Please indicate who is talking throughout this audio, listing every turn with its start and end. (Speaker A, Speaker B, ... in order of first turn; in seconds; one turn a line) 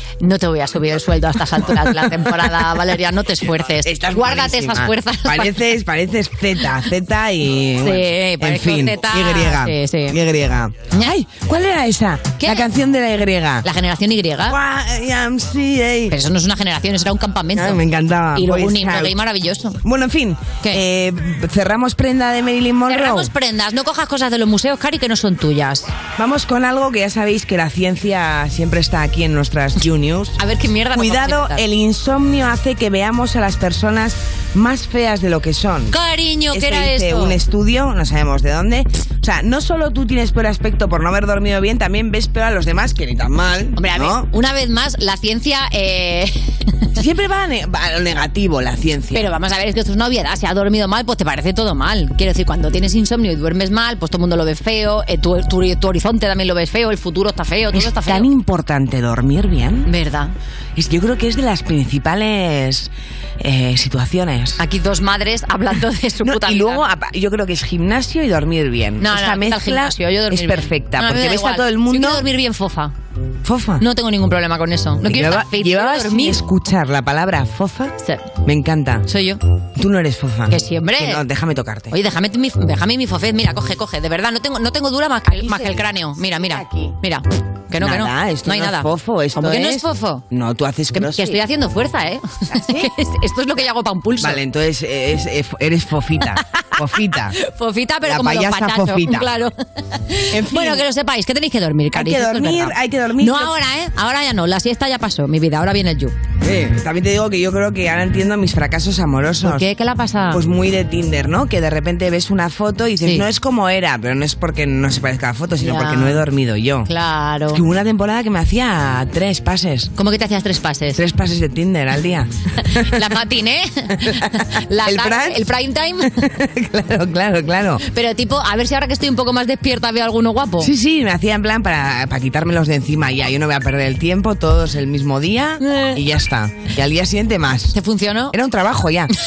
Speaker A: 0.2-5.6
Speaker B: 3.8-13.7
Speaker A: 7.8-10.2
Speaker A: 12.4-12.7
Speaker A: 13.6-14.6
Speaker B: 14.5-16.2
Speaker A: 16.1-17.8
Speaker B: 17.6-19.2
Speaker A: 18.4-19.8
Speaker B: 19.8-23.3
Speaker A: 22.9-25.9
Speaker B: 26.2-30.4
Speaker A: 30.4-31.6
Speaker B: 30.9-36.0
Speaker A: 35.9-37.4
Speaker B: 36.5-44.3
Speaker A: 43.8-46.7
Speaker B: 47.0-49.3
Speaker A: 49.1-58.3
Speaker B: 57.7-59.9
Speaker A: 59.9-60.3
Speaker B: 60.8-64.6
Speaker A: 64.6-66.8
Speaker B: 66.2-72.2
Speaker A: 69.0-72.9
Speaker B: 73.4-73.8
Speaker A: 73.8-76.4
Speaker B: 75.0-79.0
Speaker A: 79.1-79.4
Speaker B: 79.8-81.9
Speaker A: 80.5-81.2
Speaker A: 81.9-90.2
Speaker B: 85.3-86.9
Speaker B: 87.8-91.4
Speaker A: 90.9-94.4
Speaker B: 92.5-92.9
Speaker B: 94.2-97.4
Speaker A: 97.4-99.5
Speaker B: 98.0-99.3
Speaker A: 100.1-106.1
Speaker B: 100.3-100.8
Speaker B: 101.9-103.5
Speaker B: 106.4-109.7
Speaker A: 109.4-110.4
Speaker B: 110.3-116.9
Speaker A: 115.6-116.2
Speaker A: 116.9-117.6
Speaker B: 117.5-119.9
Speaker A: 120.0-121.0
Speaker B: 121.0-122.3
Speaker A: 122.6-126.1
Speaker B: 124.0-125.4
Speaker B: 126.2-127.8
Speaker A: 127.9-130.7
Speaker B: 130.6-137.8
Speaker A: 135.6-136.0
Speaker A: 137.7-138.3
Speaker B: 138.3-139.1